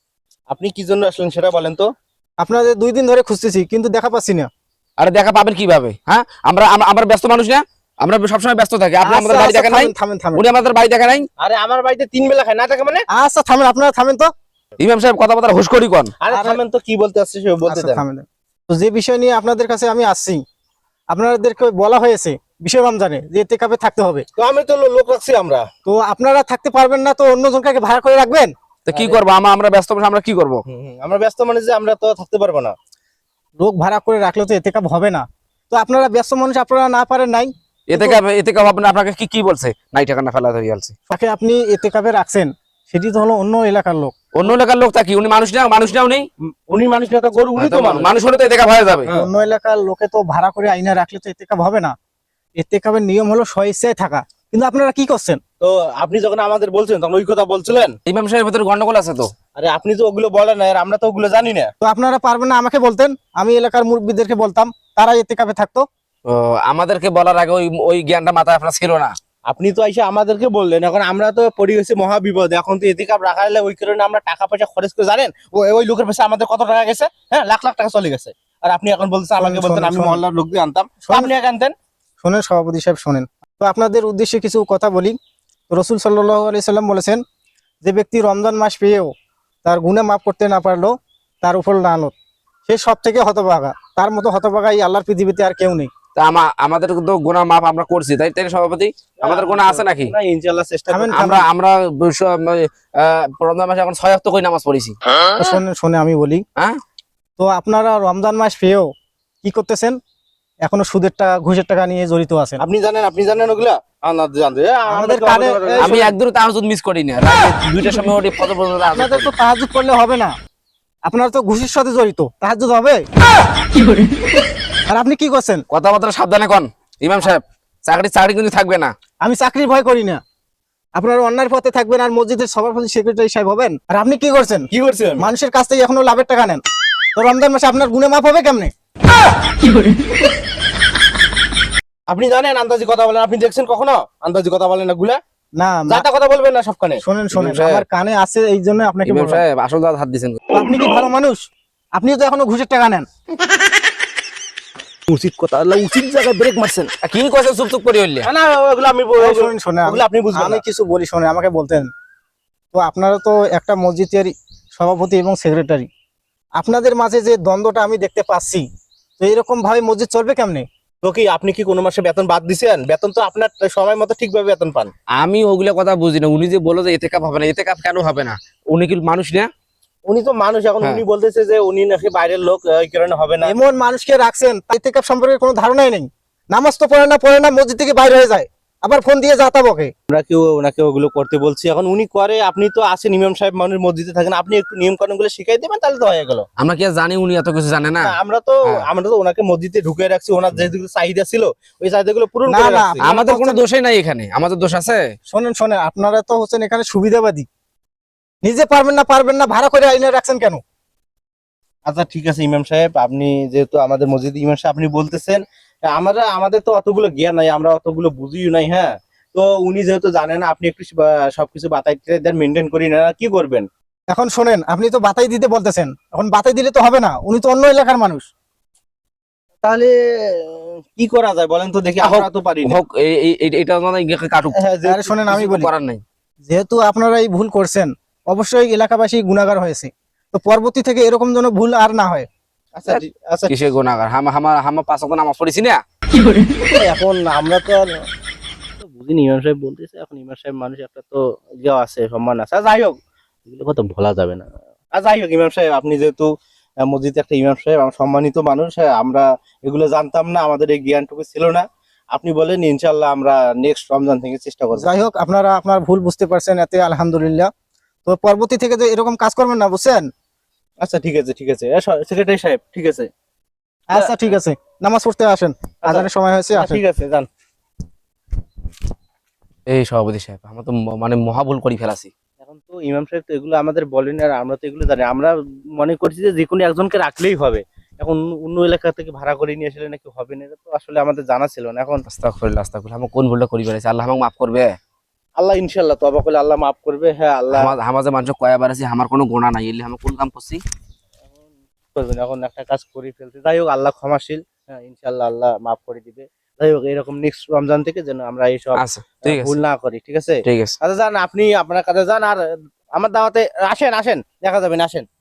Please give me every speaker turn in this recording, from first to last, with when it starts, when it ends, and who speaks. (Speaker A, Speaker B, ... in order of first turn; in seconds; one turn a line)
Speaker A: 0.5-1.9
Speaker B: 2.4-4.5
Speaker C: 5.0-11.3
Speaker B: 9.0-10.4
Speaker A: 11.4-13.1
Speaker B: 13.1-14.3
Speaker C: 14.8-16.1
Speaker A: 16.2-18.0
Speaker B: 16.3-16.6
Speaker B: 17.7-20.4
Speaker B: 21.1-24.2
Speaker A: 24.4-25.7
Speaker B: 25.9-28.5
Speaker C: 28.9-30.6
Speaker A: 28.9-29.2
Speaker A: 30.7-32.8
Speaker B: 33.6-38.2
Speaker C: 37.9-40.9
Speaker B: 41.1-44.1
Speaker C: 44.4-46.3
Speaker A: 46.7-48.1
Speaker C: 47.6-49.1
Speaker B: 49.1-51.9
Speaker B: 52.6-55.4
Speaker A: 55.6-58.0
Speaker C: 58.1-59.3
Speaker A: 59.6-61.7
Speaker B: 61.8-65.8
Speaker C: 66.3-69.1
Speaker A: 69.5-81.8
Speaker B: 79.4-80.2
Speaker B: 81.1-81.3
Speaker B: 82.2-85.2
Speaker B: 85.7-87.2
Speaker B: 87.8-89.1
Speaker B: 89.7-92.1
Speaker B: 92.7-95.9
Speaker C: 96.2-100.1
Speaker A: 99.2-101.2
Speaker B: 100.9-101.5
Speaker C: 101.1-105.0
Speaker B: 105.3-106.4
Speaker B: 107.4-108.9
Speaker B: 109.4-110.0
Speaker B: 110.6-112.6
Speaker A: 112.6-116.1
Speaker B: 114.9-116.0
Speaker C: 115.8-119.3
Speaker B: 118.9-120.3
Speaker B: 121.1-123.1
Speaker B: 124.9-125.6
Speaker C: 125.7-128.9
Speaker B: 129.2-130.2
Speaker B: 131.0-134.7
Speaker A: 134.7-135.3
Speaker B: 135.2-136.6
Speaker B: 137.2-138.7
Speaker A: 142.1-145.2
Speaker B: 145.6-146.0
Speaker A: 145.9-147.0
Speaker B: 147.0-149.4
Speaker C: 147.3-147.8
Speaker C: 149.1-150.4
Speaker B: 150.5-151.4
Speaker B: 151.9-153.1
Speaker A: 155.1-156.9
Speaker C: 157.0-158.3
Speaker A: 158.2-160.6
Speaker B: 159.2-161.9
Speaker B: 162.7-165.9
Speaker B: 166.6-168.7
Speaker B: 169.2-170.7
Speaker A: 171.0-174.9
Speaker C: 175.2-179.5
Speaker A: 180.1-183.5
Speaker B: 183.4-189.9
Speaker A: 190.1-196.5
Speaker C: 196.6-198.9
Speaker A: 198.0-203.1
Speaker B: 202.5-203.6
Speaker C: 203.0-205.0
Speaker B: 205.3-207.5
Speaker B: 208.4-210.6
Speaker A: 211.9-223.7
Speaker B: 224.1-228.3
Speaker A: 229.6-232.8
Speaker C: 232.0-234.6
Speaker A: 234.6-235.5
Speaker B: 234.8-235.7
Speaker C: 235.4-236.0
Speaker B: 236.4-242.3
Speaker A: 242.8-243.5
Speaker C: 242.9-245.8
Speaker A: 246.7-248.1
Speaker A: 248.8-253.0
Speaker A: 253.5-256.3
Speaker A: 256.8-264.9
Speaker B: 264.7-267.5
Speaker B: 268.1-270.1
Speaker A: 270.8-273.1
Speaker B: 273.9-276.8
Speaker A: 275.8-277.3
Speaker C: 279.7-282.1
Speaker A: 282.4-292.1
Speaker C: 292.1-294.8
Speaker A: 295.4-297.7
Speaker C: 297.5-300.6
Speaker A: 301.9-315.1
Speaker C: 308.8-309.6
Speaker C: 310.4-310.8